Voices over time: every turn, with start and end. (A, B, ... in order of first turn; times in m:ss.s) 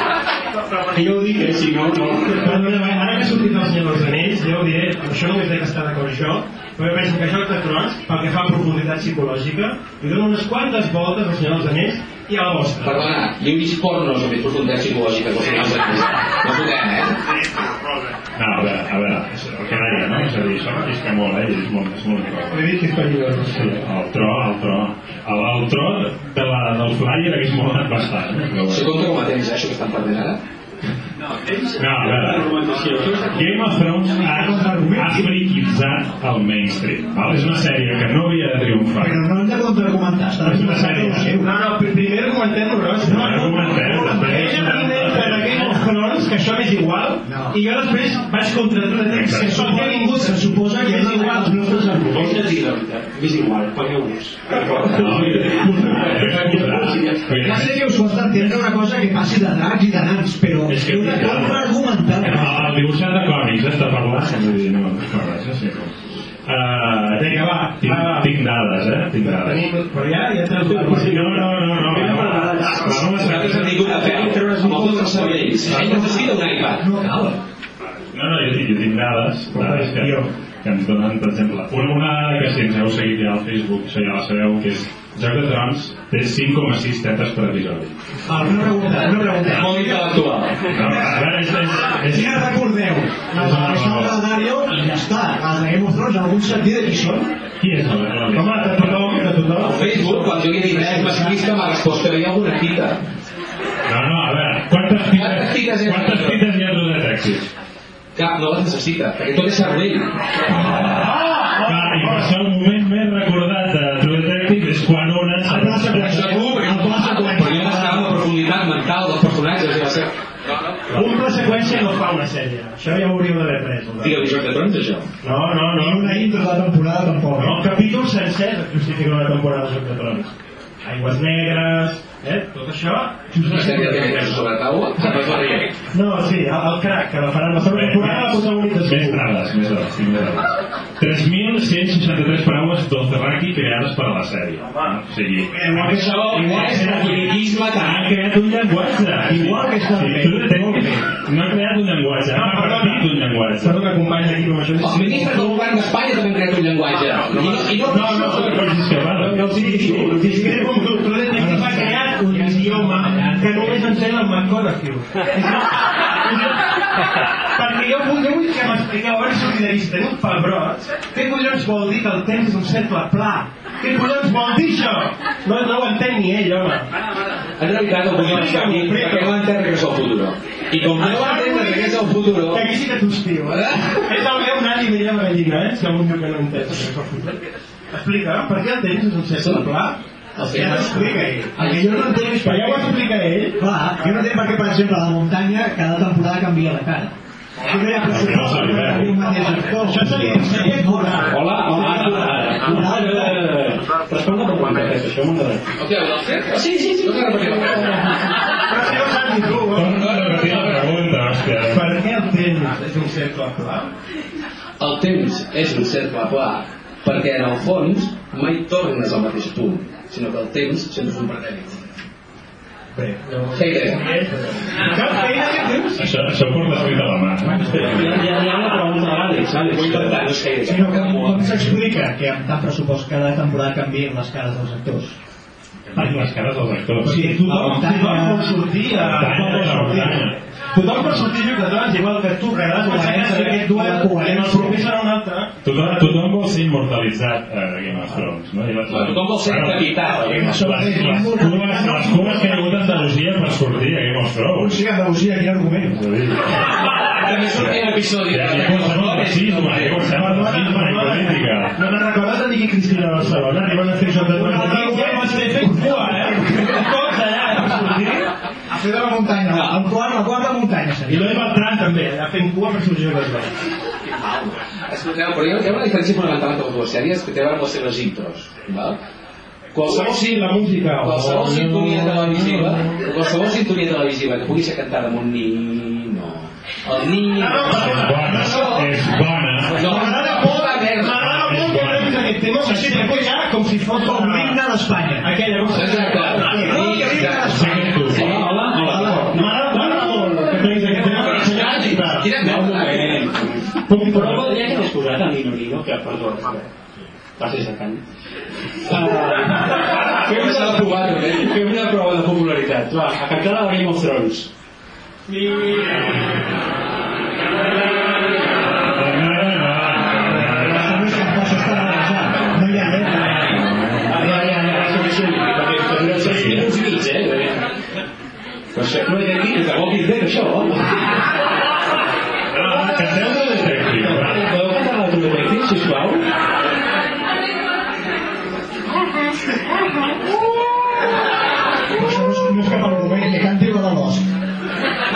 0:01.0-0:01.5 A
0:01.0-0:02.6 B
0:02.3-0:13.1 A
0:12.8-0:17.2 C
0:17.4-0:18.1 A
0:18.4-0:22.7 D
0:22.5-0:23.8 A
0:23.5-0:29.0 D
0:28.7-0:30.4 C
0:31.3-0:33.6 B
0:31.8-0:32.5 D
0:33.3-0:39.3 D
0:34.2-0:35.4 E
0:39.0-0:41.5 E
0:40.4-0:41.3 D
0:41.4-0:52.2 A
0:43.0-0:45.4 D
0:43.0-0:45.8 E
0:47.2-0:47.6 E
0:49.1-0:49.7 D
0:49.3-0:52.3 E
0:52.1-0:57.6 B
0:54.9-0:57.8 D
0:57.4-1:02.8 E
1:00.7-1:05.9 D
1:06.4-1:09.7 D
1:07.2-1:08.3 A
1:09.2-1:11.6 A
1:10.7-1:16.0 B
1:10.9-1:13.8 D
1:13.0-1:17.4 C
1:15.7-1:17.3 E
1:18.1-1:28.8 D
1:19.5-1:20.3 A
1:28.3-1:30.1 E
1:29.3-1:30.6 C
1:30.7-1:32.6 D
1:30.8-1:31.2 E
1:32.1-1:37.4 E
1:33.3-1:34.2 D
1:37.6-1:39.3 D
1:38.3-1:40.5 A
1:39.6-1:43.0 C
1:40.5-1:41.4 E
1:43.9-1:47.5 D
1:45.1-1:46.4 C
1:48.2-1:50.1 C
1:50.5-1:56.0 D
1:50.9-1:52.3 A
1:55.4-1:58.2 E
1:55.5-1:56.4 A
1:55.8-2:01.1 C
2:00.9-2:04.3 A
2:00.9-2:01.6 D
2:04.0-2:05.1 C
2:05.2-2:06.4 A
2:05.8-2:07.6 E
2:07.4-2:10.3 A
2:10.8-2:14.4 A
2:13.4-2:15.7 C
2:15.9-2:19.2 A
2:17.6-2:33.8 D
2:24.7-2:25.0 A
2:25.5-2:27.3 E
2:25.8-2:28.1 C
2:29.2-2:31.2 E
2:32.3-2:35.8 A
2:34.8-2:38.6 C
2:37.5-2:38.6 A
2:38.0-2:40.1 D
2:39.3-2:46.6 A
2:39.4-2:40.6 E
2:41.4-2:43.7 E
2:41.6-2:42.0 D
2:47.6-2:56.9 A
2:57.6-3:02.7 C
2:58.1-2:59.4 A
3:00.9-3:07.4 A
3:03.4-3:04.2 C
3:07.9-3:14.2 A
3:09.4-3:09.6 C
3:10.4-3:12.2 C
3:10.4-3:12.9 E
3:13.6-3:23.5 E
3:17.6-3:19.2 D
3:19.8-3:21.3 A
3:21.3-3:25.6 B
3:21.8-3:22.2 A
3:25.8-3:28.2 C
3:26.5-3:28.0 B
3:28.7-3:30.2 A
3:29.5-3:31.9 D
3:29.9-3:31.0 C
3:31.7-3:33.9 A
3:34.8-3:41.8 C
3:42.9-3:46.0 A
3:43.5-3:44.1 C
3:45.0-3:46.0 E
3:46.0-3:48.3 D
3:47.7-3:50.2 B
3:49.7-3:51.8 C
3:50.6-3:55.2 E
3:55.9-3:57.8 D
3:57.0-3:58.6 E
3:57.1-4:00.2 A
3:59.0-4:00.4 D
3:59.3-4:00.2 E
4:00.7-4:05.8 A
4:02.7-4:04.9 E
4:05.6-4:14.8 D
4:08.9-4:10.4 C
4:10.2-4:13.2 E
4:14.5-4:16.0 E
4:15.9-4:21.8 D
4:17.1-4:20.1 C
4:20.1-4:28.3 A
4:24.2-4:26.8 E
4:28.7-4:31.4 E
4:29.5-4:29.8 C
4:31.1-4:33.5 A
4:34.1-4:39.0 C
4:39.7-4:40.4 C
4:39.8-4:42.9 A
4:41.0-4:48.9 C
4:47.4-4:48.7 A
4:47.7-4:49.9 D
4:48.2-4:48.6 E
4:49.7-4:51.3 C
4:49.7-4:50.9 E
4:49.8-4:54.6 A
4:51.0-4:52.3 D
4:52.5-4:53.4 E
4:54.0-4:55.3 E
4:55.2-4:57.2 A
4:55.7-4:58.6 C
4:56.3-4:58.2 E
4:57.1-4:58.5 D
4:58.1-5:01.4 B
4:58.7-4:59.9 E
4:58.9-5:02.3 A
5:00.9-5:03.3 C
5:02.3-5:06.7 B
5:03.9-5:04.6 A
5:07.4-5:08.0 B
5:08.8-5:14.5 B
5:09.0-5:11.5 C
5:18.8-5:24.2 D
5:20.3-5:23.5 E
5:24.1-5:27.7 B
5:26.1-5:26.7 D
5:28.8-5:30.0 B
5:29.5-5:30.9 C
5:32.5-5:34.5 D
5:34.1-5:36.2 B
5:41.9-5:44.3 E